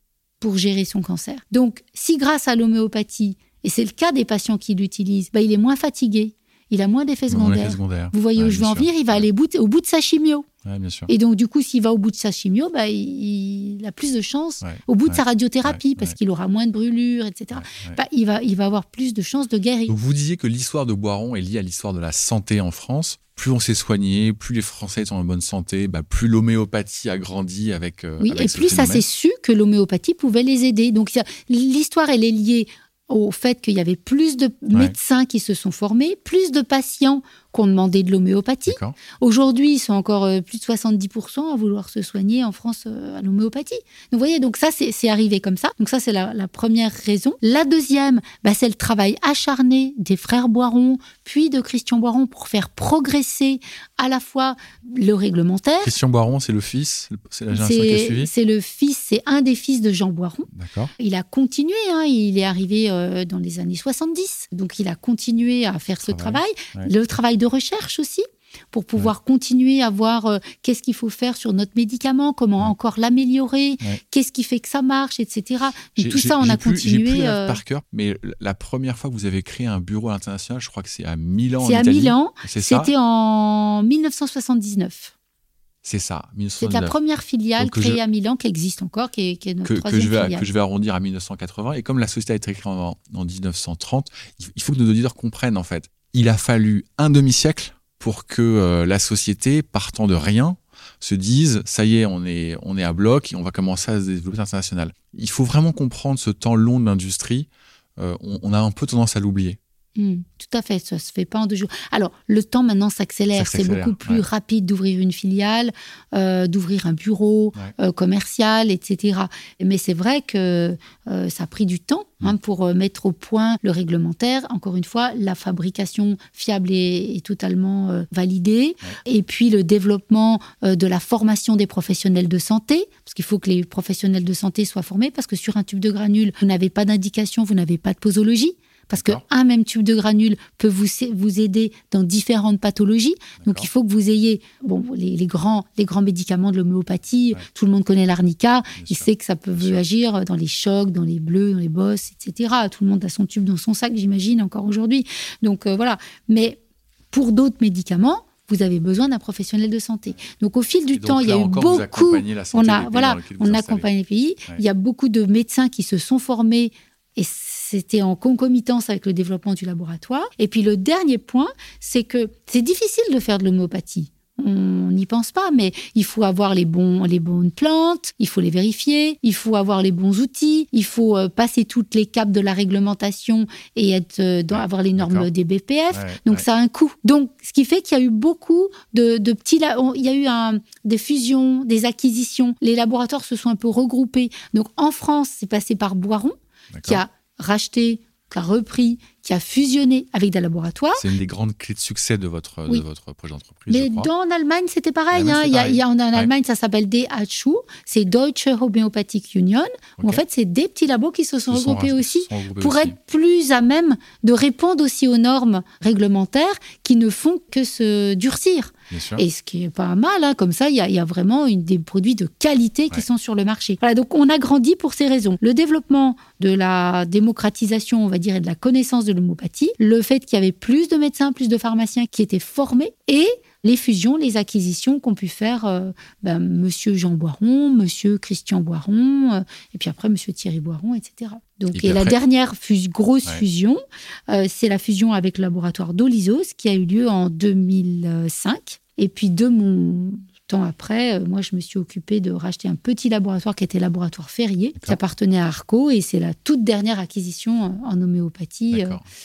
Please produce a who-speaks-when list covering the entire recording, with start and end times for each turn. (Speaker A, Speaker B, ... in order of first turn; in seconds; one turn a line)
Speaker A: 0.4-10.4
Speaker B: 7.3-9.2
Speaker B: 10.6-11.1
Speaker A: 11.1-19.9
Speaker B: 14.6-16.1
Speaker B: 17.5-18.0
Speaker B: 19.9-29.0
Speaker A: 28.2-55.9
Speaker B: 38.7-39.0
Speaker B: 55.8-58.3
Speaker A: 57.5-77.6
Speaker B: 60.5-60.9
Speaker B: 66.0-66.9
Speaker B: 76.0-82.9
Speaker A: 81.6-85.1
Speaker B: 85.8-86.9
Speaker A: 86.6-90.5
Speaker B: 87.6-88.0
Speaker B: 89.6-109.6
Speaker A: 110.0-156.6
Speaker B: 113.3-114.2
Speaker B: 138.9-139.2
Speaker B: 143.4-143.7
Speaker B: 148.8-149.8
Speaker A: 157.1-201.0
Speaker B: 160.9-163.9
Speaker B: 184.5-185.3
Speaker B: 185.9-186.4
Speaker B: 196.7-197.0
Speaker B: 200.9-204.1
Speaker A: 203.7-259.0
Speaker B: 205.1-206.3
Speaker B: 211.5-212.9
Speaker B: 218.9-219.2
Speaker B: 241.7-242.1
Speaker B: 258.7-259.0